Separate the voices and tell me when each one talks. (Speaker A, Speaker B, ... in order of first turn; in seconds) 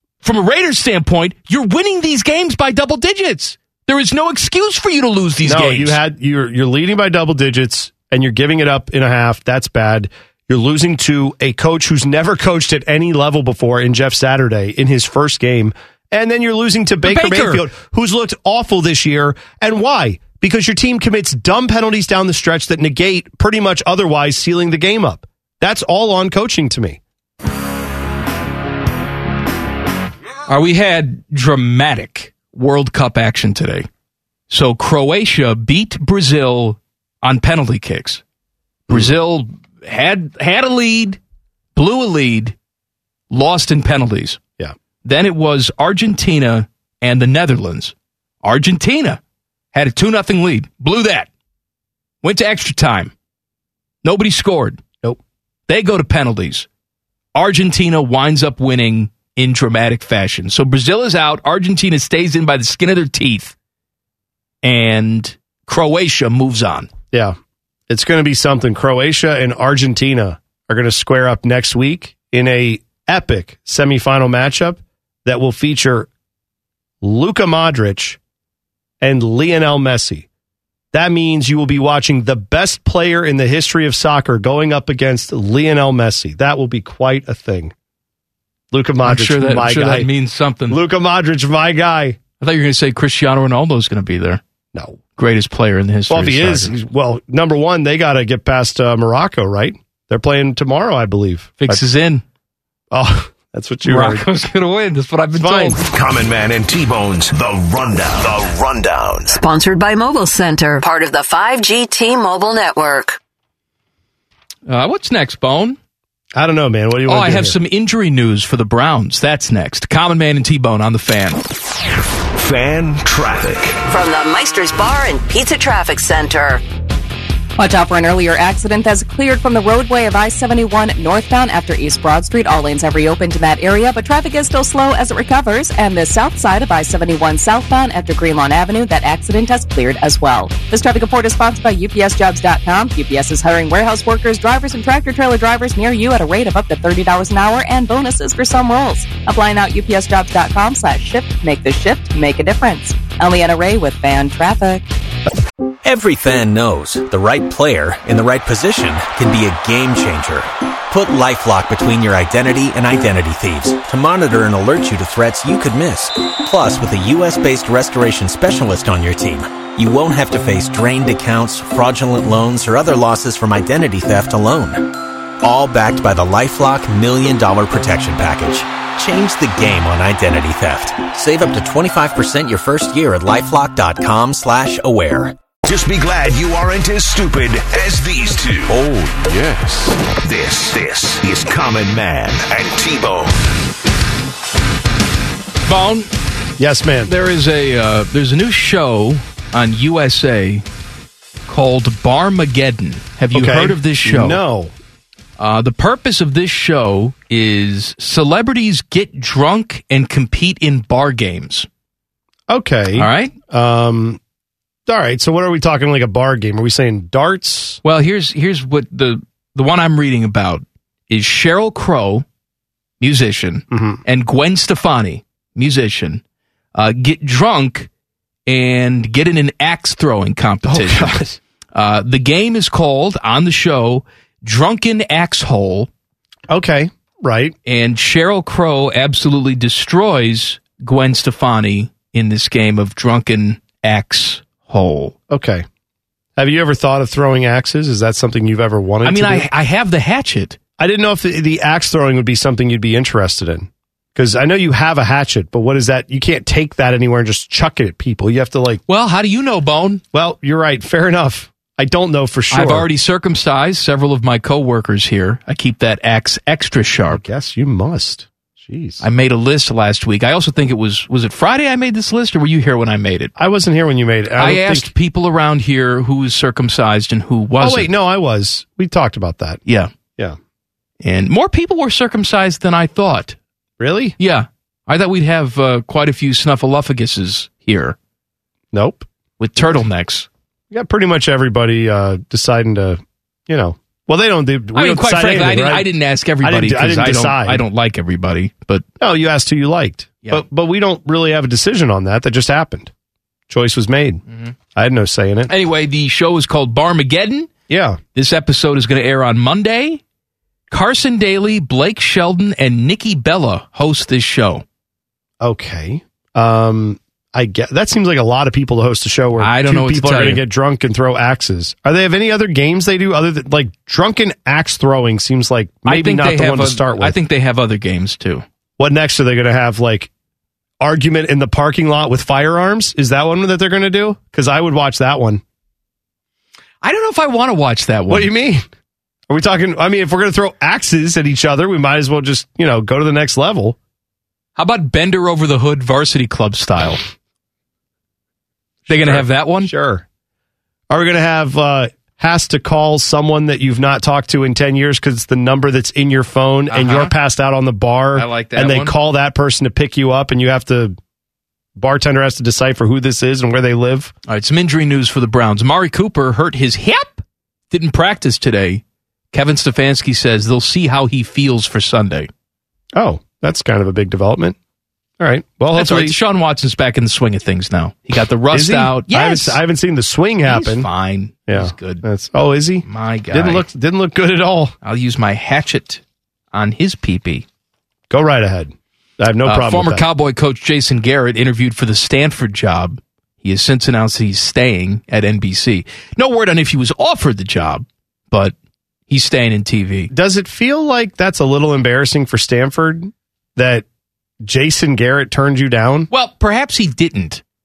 Speaker A: 0.2-6.0, 17.0-17.6, 30.5-33.9, 34.5-38.2, 38.9-41.2, 41.7-42.5, 43.3-44.4, 45.0-49.2, 49.7-51.3, 52.2-53.1, 54.0-54.9, 55.7-56.7, 57.3-63.5, 64.6-66.9, 89.0-90.8, 92.4-94.4, 95.2-96.7, 101.6-102.2, 103.8-105.8, 114.7-115.8, 117.1-121.4, 195.7-196.1, 197.1-200.6, 201.5-204.4, 205.4-211.7, 212.9-213.3, 217.8-222.2, 223.0-226.2, 226.7-227.9, 228.5-231.2, 231.7-235.9, 237.7-245.1, 249.0-250.6, 258.9-260.0, 262.5-267.2, 269.0-273.3, 274.4-277.9, 281.0-283.4, 284.2-287.9, 289.4-290.3, 294.7-298.8, 305.5-307.5, 308.1-310.0, 310.7-314.6, 319.4-320.4, 325.9-328.4, 336.8-338.3, 344.6-347.0, 348.9-349.7, 356.7-357.1, 358.1-358.9, 364.3-372.3, 375.7-379.6, 380.4-382.0, 382.9-383.6, 384.8-386.0, 386.5-387.4, 389.4-398.5, 399.1-400.1, 406.1-407.4
Speaker B: 5.4-27.0, 38.9-39.1, 67.9-76.1, 77.0-78.2, 79.0-80.2, 80.9-87.7, 88.7-90.1, 90.7-92.2, 94.7-95.0, 96.1-101.8, 102.9-104.2, 105.4-105.8, 116.3-117.5, 196.6-197.1, 203.3-204.7, 212.5-214.2, 214.9-217.8, 223.7-224.0, 230.7-231.4, 236.5-237.5, 245.3-245.7, 246.4-249.4, 250.8-258.8, 260.1-262.9, 267.1-269.0, 273.4-274.9, 277.6-279.6, 283.8-284.1, 288.7-289.1, 290.7-295.9, 296.4-297.6, 299.0-302.9, 303.5-304.2, 304.7-305.5, 307.7-308.0, 315.4-327.1, 328.8-330.1, 330.8-335.4, 338.1-338.6, 339.3-343.8, 348.9-350.0, 350.9-361.0, 361.8-364.1, 372.9-374.6, 375.2-376.1, 378.5-380.9, 381.5-384.7, 388.1-390.0, 400.1-403.8, 404.4-406.1
Speaker C: 105.9-109.4, 122.3-123.8, 185.6-193.4
Speaker D: 109.3-113.2, 123.9-126.6
Speaker E: 127.6-154.9
Speaker F: 155.8-185.4